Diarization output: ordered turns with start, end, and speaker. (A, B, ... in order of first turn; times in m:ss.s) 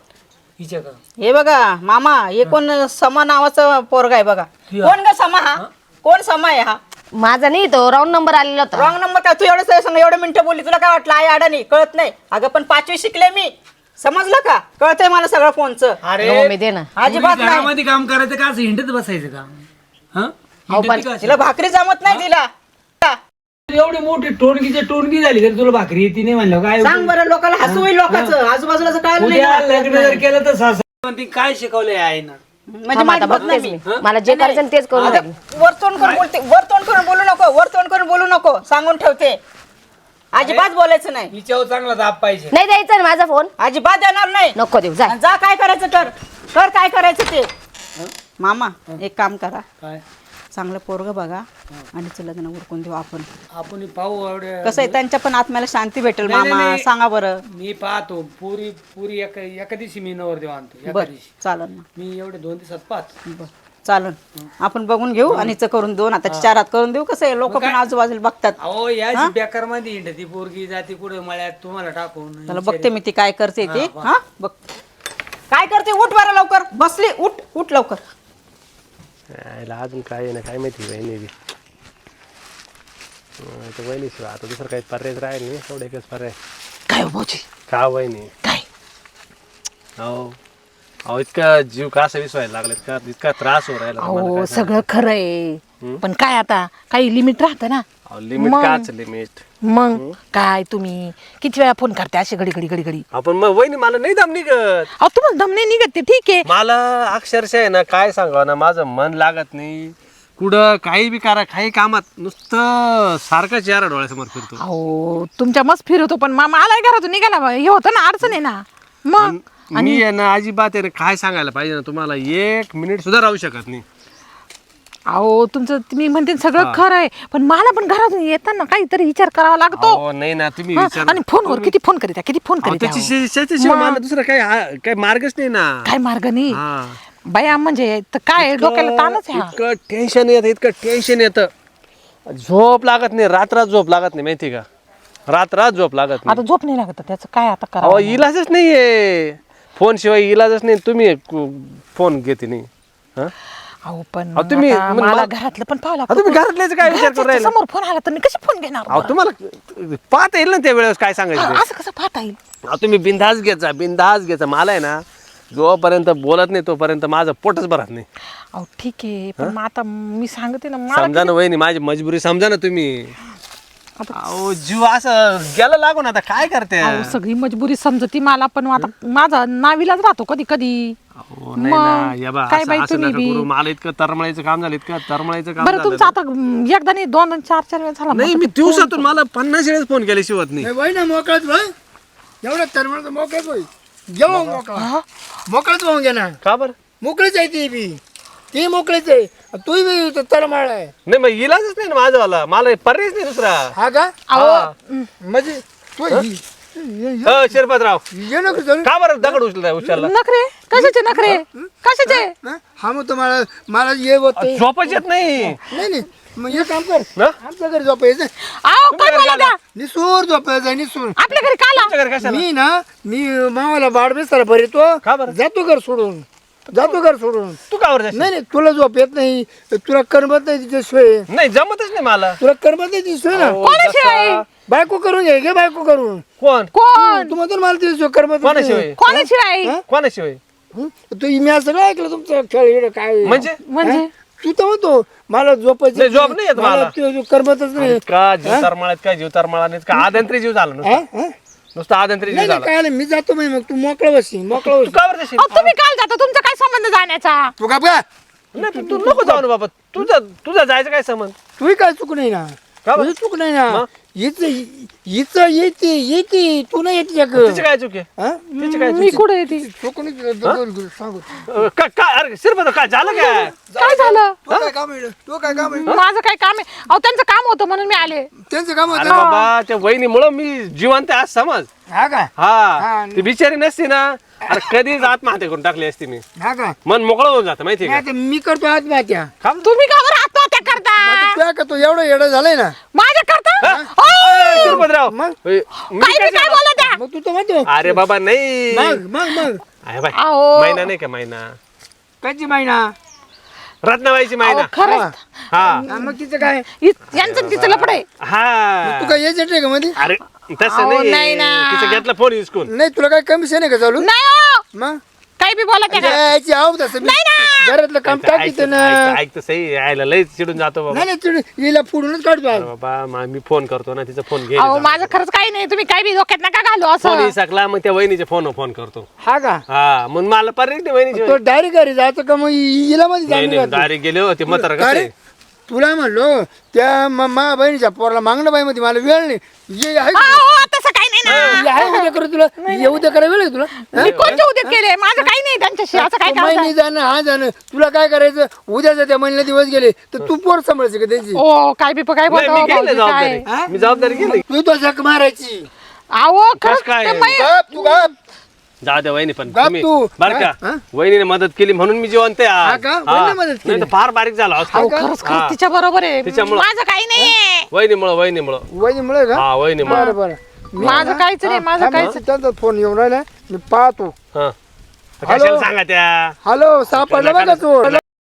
0:00.6-0:01.0 A
0:01.2-0:06.8 B
0:04.7-0:04.9 A
0:07.2-0:08.9 C
0:08.8-0:16.0 B
0:16.0-0:16.5 A
0:16.2-0:16.9 C
0:17.0-0:17.7 B
0:17.0-0:19.6 A
0:20.1-0:21.3 A
0:20.7-0:21.0 C
0:21.2-0:22.5 B
0:23.7-0:27.1 A
0:26.8-0:30.2 B
0:27.6-0:28.4 A
0:29.2-0:32.4 A
0:32.7-0:39.4 B
0:32.9-0:35.3 C
0:34.9-0:35.2 A
0:36.0-0:36.2 A
0:40.3-0:41.3 B
0:40.4-0:40.7 A
0:41.3-0:42.5 A
0:42.5-0:43.5 C
0:43.6-0:44.6 B
0:44.6-0:45.1 C
0:45.1-0:47.5 B
0:48.4-0:49.6 B
0:50.5-0:53.3 B
0:53.5-0:55.0 A
0:54.6-0:57.4 B
0:56.2-0:56.9 A
0:57.5-1:01.3 A
1:00.9-1:01.8 B
1:02.0-1:03.1 A
1:03.3-1:08.6 B
1:05.2-1:05.6 A
1:06.3-1:06.5 A
1:07.5-1:07.8 A
1:08.6-1:12.9 A
1:12.5-1:14.6 B
1:13.6-1:14.1 A
1:15.5-1:18.0 B
1:19.3-1:21.3 D
1:23.4-1:26.3 D
1:26.9-1:27.4 E
1:27.7-1:28.3 D
1:30.0-1:30.4 D
1:31.0-1:34.8 D
1:34.0-1:37.8 E
1:38.1-1:40.1 D
1:38.4-1:38.8 E
1:39.6-1:43.0 E
1:43.1-1:44.9 D
1:45.0-1:46.4 E
1:46.4-1:54.6 D
1:54.6-2:00.0 E
1:59.2-2:03.8 D
2:05.1-2:10.0 E
2:06.6-2:06.8 D
2:09.7-2:11.7 D
2:10.7-2:14.0 E
2:12.6-2:15.9 D
2:15.8-2:16.6 E
2:16.5-2:17.0 D
2:17.2-2:19.5 E
2:18.4-2:21.5 D
2:22.3-2:24.6 D
2:25.3-2:26.4 D
2:26.2-2:28.2 E
2:27.8-2:33.3 D
2:33.8-2:39.1 E
2:34.3-2:35.3 D
2:36.1-2:37.5 D
2:38.9-2:41.6 D
2:41.3-2:42.4 E
2:42.6-2:45.0 D
2:45.5-2:48.0 D
2:48.5-2:51.3 E
2:50.9-2:53.1 D
2:54.1-2:57.2 D
2:56.8-3:01.0 E
3:01.2-3:06.1 D
3:01.6-3:03.5 E
3:05.6-3:09.1 E
3:08.1-3:10.7 D
3:10.6-3:11.7 F
3:12.4-3:14.9 F
3:14.7-3:15.0 E
3:15.5-3:16.4 F
3:16.4-3:16.8 D
3:17.0-3:18.0 F
3:18.5-3:20.9 F
3:21.0-3:23.7 D
3:23.7-3:24.1 F
3:24.3-3:25.1 E
3:24.3-3:24.7 D
3:25.2-3:27.5 F
3:27.2-3:28.0 D
3:28.1-3:29.4 F
3:28.8-3:30.1 D
3:29.8-3:32.3 E
3:30.7-3:34.6 F
3:34.4-3:35.6 D
3:35.7-3:38.3 F
3:38.6-3:39.6 E
3:38.9-3:39.5 D
3:39.7-3:41.2 F
3:41.2-3:41.9 E
3:41.7-3:42.4 D
3:42.2-3:47.6 F
3:45.0-3:45.3 D
3:47.7-3:48.3 D
3:48.1-3:51.3 F
3:51.3-3:52.4 D
3:52.4-3:53.6 F
3:53.3-3:54.4 D
3:53.6-3:54.4 E
3:54.7-3:56.2 F
3:56.4-3:56.7 D
3:56.7-3:57.3 E
3:56.9-3:59.8 F
3:58.4-3:59.0 D
3:59.0-3:59.8 E
3:59.9-4:00.4 D
4:00.7-4:08.7 F
4:03.2-4:03.6 D
4:03.6-4:04.1 E
4:05.9-4:06.9 D
4:07.8-4:11.0 D
4:10.8-4:11.3 F
4:11.7-4:12.7 D
4:12.3-4:14.9 F
4:14.6-4:15.7 D
4:15.4-4:17.5 E
4:17.6-4:18.0 F
4:18.5-4:21.3 D
4:18.6-4:19.4 F
4:21.6-4:27.6 F
4:22.8-4:23.1 D
4:27.4-4:28.1 D
4:28.2-4:28.5 F
4:28.5-4:29.7 E
4:28.6-4:29.2 D
4:29.4-4:31.4 F
4:31.5-4:33.5 D
4:33.1-4:34.4 E
4:33.7-4:36.0 F
4:35.5-4:38.3 E
4:38.5-4:39.4 F
4:38.9-4:41.7 D
4:39.1-4:39.5 E
4:41.9-4:43.2 F
4:42.4-4:46.2 D
4:46.4-4:46.8 F
4:46.8-4:48.0 D
4:47.8-4:49.3 F
4:49.6-4:51.4 E
4:51.0-4:52.8 F
4:52.9-4:54.8 E
4:53.6-4:56.8 D
4:53.6-4:53.9 F
4:54.5-4:55.4 F
4:56.0-4:57.0 E
4:56.9-4:58.0 F
4:57.7-4:59.0 D
4:58.7-4:59.6 F
4:59.8-5:01.5 D
5:00.1-5:00.9 E
5:02.2-5:02.9 F
5:03.8-5:04.7 D
5:04.4-5:06.1 E
5:04.8-5:05.1 F
5:05.5-5:05.8 D
5:05.9-5:06.6 F
5:06.8-5:08.0 E
5:07.1-5:09.2 D
5:08.8-5:10.0 F
5:10.0-5:12.7 D
5:10.6-5:12.0 E
5:12.6-5:14.1 F
5:14.0-5:14.6 E
5:14.7-5:15.0 F
5:15.4-5:16.2 E
5:15.9-5:19.2 F
5:17.0-5:17.8 E
5:18.1-5:21.0 D
5:20.9-5:22.7 F
5:22.5-5:25.2 D
5:24.5-5:27.3 E
5:27.0-5:29.1 D
5:29.2-5:29.6 F
5:29.7-5:31.4 D
5:31.1-5:33.9 F
5:33.3-5:35.1 D
5:34.4-5:35.1 F
5:35.7-5:40.6 F
5:40.1-5:42.0 E
5:41.2-5:41.7 D
5:41.4-5:45.3 F
5:42.6-5:43.0 E
5:43.9-5:46.7 E
5:44.0-5:44.4 D
5:45.9-5:51.4 F
5:51.3-5:53.4 E
5:52.3-5:54.4 D
5:53.4-5:55.7 F
5:56.2-5:57.9 E
5:56.6-5:57.4 D
5:57.3-5:58.1 F
5:58.8-6:05.6 D
5:59.5-6:00.8 F
6:02.6-6:03.9 F
6:04.7-6:07.7 E
6:04.7-6:05.1 F
6:06.2-6:06.7 D
6:07.7-6:08.6 D
6:08.7-6:14.1 F
6:09.4-6:10.0 D
6:09.8-6:10.2 E
6:10.8-6:12.2 E
6:10.8-6:11.1 D
6:15.2-6:16.4 D
6:15.2-6:15.7 F
6:16.4-6:18.0 F
6:17.0-6:18.0 D